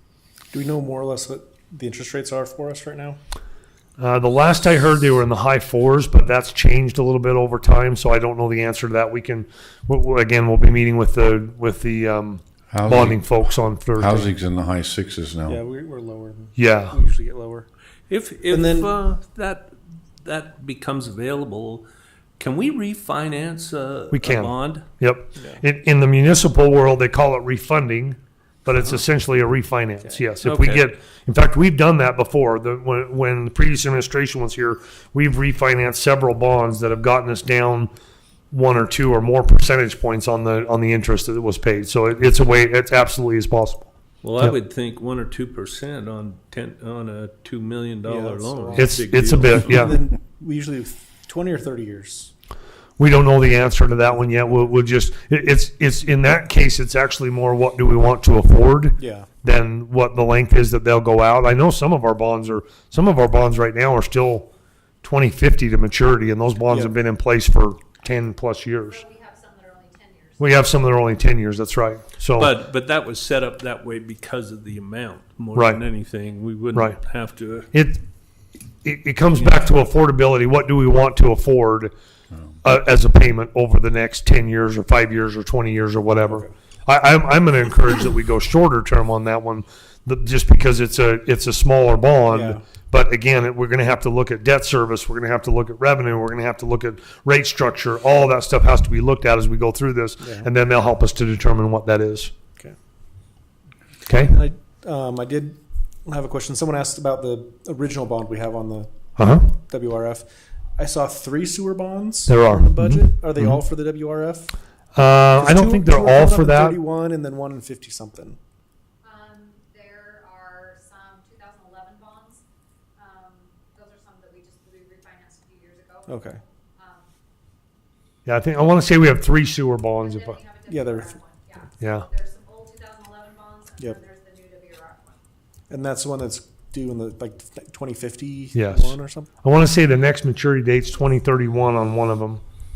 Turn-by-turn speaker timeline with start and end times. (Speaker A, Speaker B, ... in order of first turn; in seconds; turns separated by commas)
Speaker A: 0.5-3.2, Speaker B: 4.0-14.3, Speaker C: 12.7-13.2, Speaker C: 14.0-15.6, Speaker A: 15.5-17.7, Speaker B: 16.6-17.0, Speaker D: 18.1-21.8, Speaker A: 18.5-18.9, Speaker D: 22.4-24.9, Speaker B: 24.1-37.9, Speaker D: 30.4-30.9, Speaker B: 38.5-44.5, Speaker D: 44.2-50.0, Speaker A: 48.0-52.3, Speaker B: 48.8-50.0, Speaker B: 53.0-64.5, Speaker A: 54.1-54.7, Speaker A: 59.0-59.3, Speaker B: 65.0-69.0, Speaker A: 66.7-66.9, Speaker E: 68.8-70.8, Speaker B: 70.4-72.5, Speaker D: 72.3-77.7, Speaker B: 75.5-75.8, Speaker B: 77.7-78.0, Speaker B: 78.8-81.9, Speaker B: 82.6-102.3, Speaker A: 86.2-86.5, Speaker A: 92.3-92.6, Speaker A: 100.2-100.5, Speaker B: 104.0-104.4, Speaker A: 104.1-108.9, Speaker B: 109.2-109.5, Speaker A: 109.5-110.2, Speaker A: 110.8-114.5, Speaker B: 112.3-113.6, Speaker B: 114.9-116.8, Speaker A: 115.3-118.4, Speaker E: 119.0-122.4, Speaker E: 123.0-127.1, Speaker A: 126.1-126.4, Speaker B: 128.2-130.4, Speaker E: 130.0-135.2, Speaker A: 130.7-131.2, Speaker B: 131.8-132.1, Speaker A: 135.7-139.3, Speaker B: 138.5-142.4